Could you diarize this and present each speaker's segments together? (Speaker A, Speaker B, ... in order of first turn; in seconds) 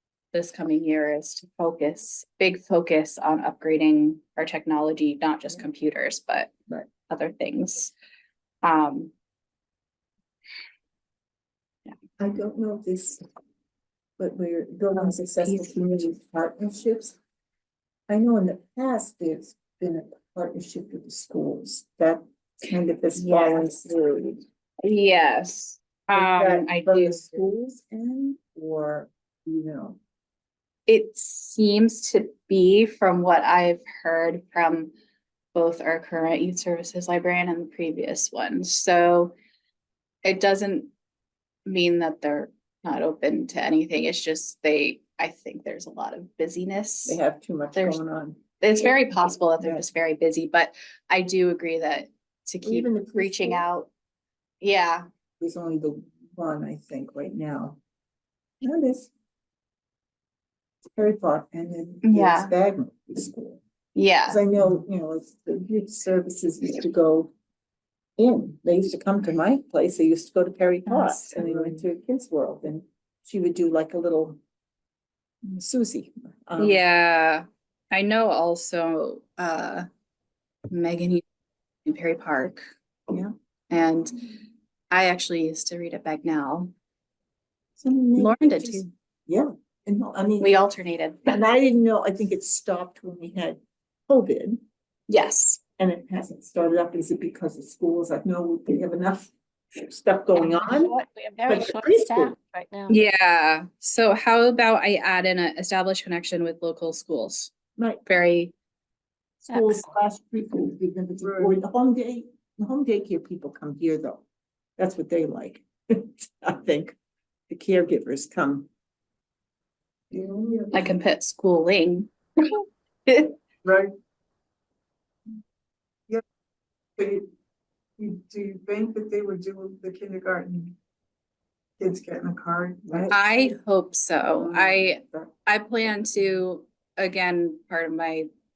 Speaker A: 0.3-6.5, 7.1-7.9, 8.6-9.1, 14.9-15.7, 23.1-23.9, 24.8-27.5, 30.9-34.9, 35.5-39.3, 40.2-40.9, 41.6-47.2, 47.7-48.0, 48.6-53.9, 54.6-55.1, 62.0-62.5, 63.9-64.4, 70.9-71.3, 76.6-79.9, 80.7-81.2, 81.8-82.6, 83.7-84.1, 84.9-86.7, 88.2-88.9, 90.4-91.2, 95.1-95.6, 102.9-107.5, 108.0-108.5, 120.7-123.3, 133.1-138.3
Speaker B: 12.2-13.2, 14.2-17.1, 18.1-24.4, 26.1-30.0, 47.1-48.4, 49.6-49.8, 52.6-53.6, 55.4-57.7, 58.6-59.1, 60.8-63.6, 64.2-67.3, 68.2-74.4, 75.4-76.8, 87.8-90.5, 91.2-94.6, 95.8-100.9, 101.5-102.3, 107.8-108.0, 109.4-114.2, 114.8-117.0, 117.5-118.7, 132.9-133.5, 134.3-135.3
Speaker C: 71.3-71.8, 111.2-111.6, 120.1-120.9, 123.6-123.9, 127.0-127.3, 128.0-130.7, 131.8-133.2
Speaker D: 100.3-103.0, 109.5-109.8